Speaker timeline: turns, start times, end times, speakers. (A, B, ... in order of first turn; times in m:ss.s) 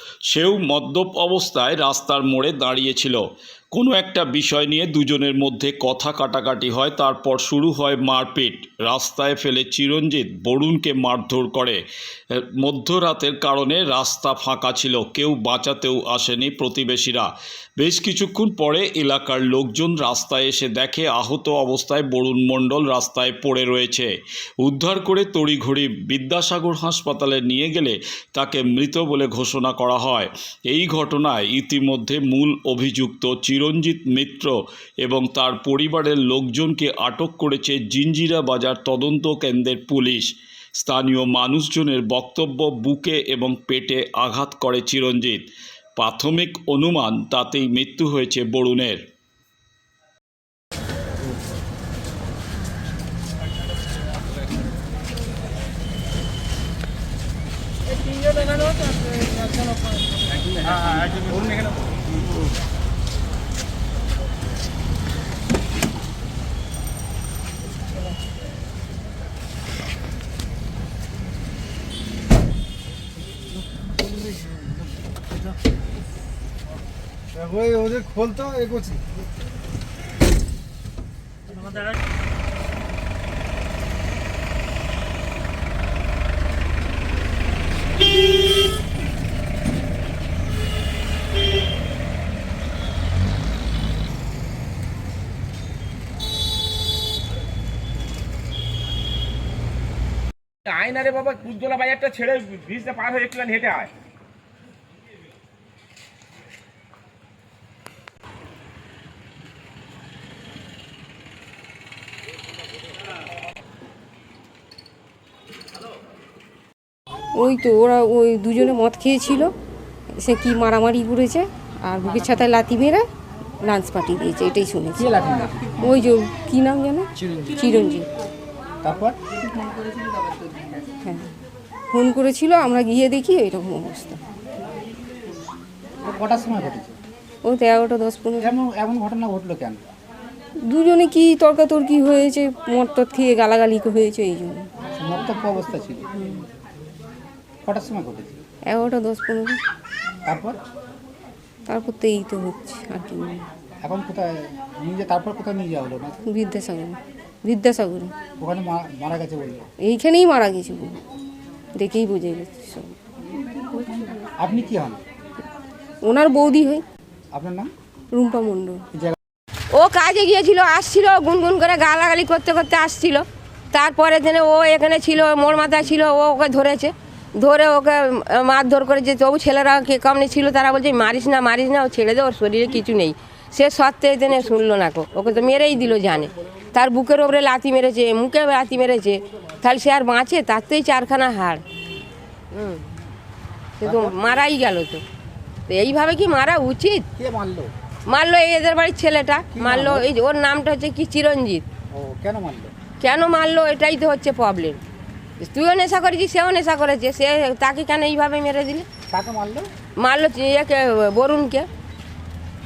0:00.3-0:11.8 A
0:12.3-0:49.0 A
1:40.7-1:43.9 B
1:57.4-1:59.5 C
2:00.2-2:03.1 C
2:03.6-2:05.3 C
2:05.0-2:06.0 D
2:05.8-2:08.1 C
2:08.8-2:09.2 D
2:11.0-2:11.3 C
2:11.9-2:14.2 C
2:16.0-2:17.0 D
2:17.4-2:18.5 C
2:18.4-2:19.8 D
2:20.7-2:24.7 C
2:25.0-2:26.1 D
2:26.2-2:26.5 C
2:27.6-2:28.4 D
2:28.7-2:29.6 C
2:30.3-2:30.6 D
2:31.7-2:33.4 C
2:33.8-2:36.2 D
2:36.3-2:38.1 C
2:38.4-2:39.6 D
2:39.8-2:41.0 C
2:41.8-2:43.0 C
2:44.4-2:45.0 D
2:46.0-2:46.8 C
2:47.3-2:47.7 D
2:48.1-2:48.8 C
2:49.7-3:11.6 E
3:12.5-3:12.8 E
3:13.8-3:15.0 E
3:13.8-3:14.2 D
3:15.7-3:17.1 E
3:17.2-3:17.7 D
3:18.1-3:21.6 E
3:19.5-3:20.0 D
3:21.9-3:22.7 D
3:23.0-3:24.8 E
3:25.4-3:28.9 E
3:29.1-3:29.7 D
3:30.0-3:31.7 E